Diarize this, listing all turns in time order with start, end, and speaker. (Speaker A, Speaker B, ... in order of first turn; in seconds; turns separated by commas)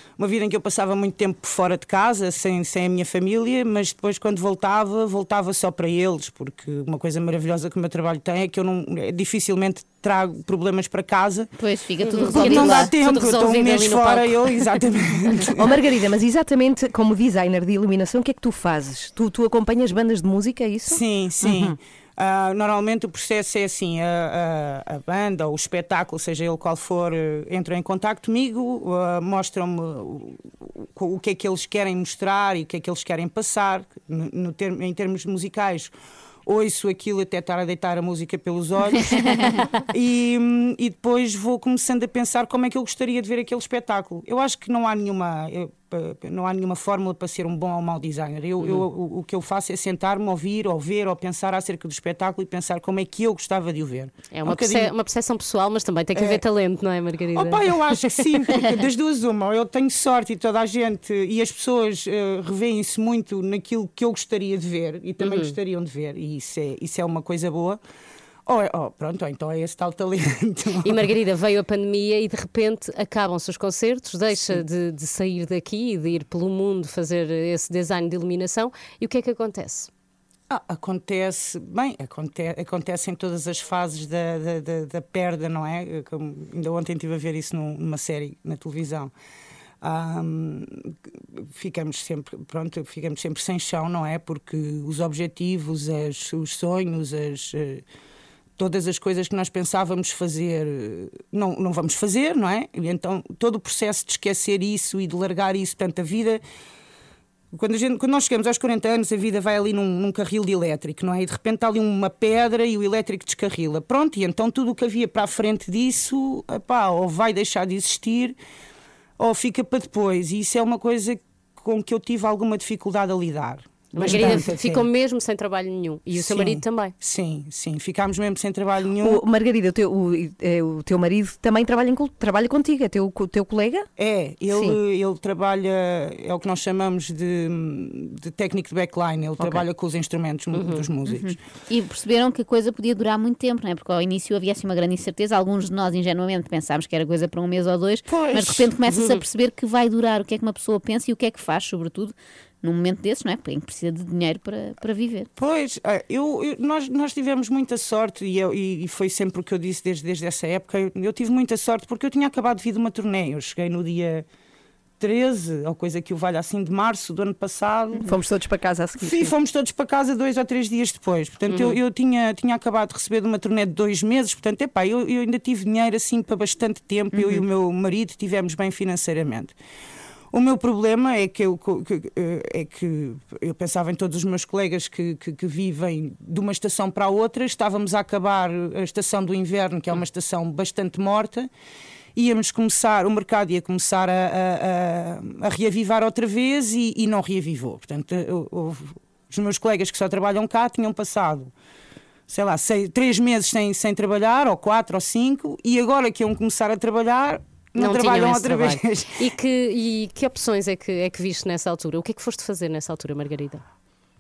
Speaker A: 0.2-11.5, Speaker B: 11.6-12.9, Speaker C: 12.0-14.6, Speaker A: 12.3-15.8, Speaker D: 15.6-21.8, Speaker A: 20.9-35.9, Speaker A: 36.5-39.3, Speaker A: 39.9-54.9, Speaker C: 48.6-48.9, Speaker C: 54.3-57.8, Speaker A: 56.1-56.4, Speaker A: 57.4-67.8, Speaker C: 65.2-65.6, Speaker A: 68.5-71.0, Speaker C: 70.8-79.9, Speaker A: 80.5-89.1, Speaker A: 89.8-97.8, Speaker A: 98.6-106.4, Speaker A: 107.5-118.4, Speaker A: 119.2-124.9, Speaker C: 124.0-126.9, Speaker D: 124.0-124.4, Speaker A: 126.1-129.2, Speaker D: 129.0-133.9, Speaker A: 134.0-141.3, Speaker D: 134.5-134.8, Speaker D: 139.4-139.7, Speaker C: 140.5-140.9, Speaker B: 141.1-155.3, Speaker A: 148.1-148.7, Speaker C: 148.9-149.2, Speaker A: 155.4-164.3, Speaker A: 165.0-168.1, Speaker D: 168.0-169.3, Speaker A: 169.0-179.6, Speaker C: 171.5-171.8, Speaker C: 177.2-177.4, Speaker A: 180.3-191.5, Speaker A: 192.2-201.5, Speaker A: 202.3-209.1, Speaker C: 207.8-213.6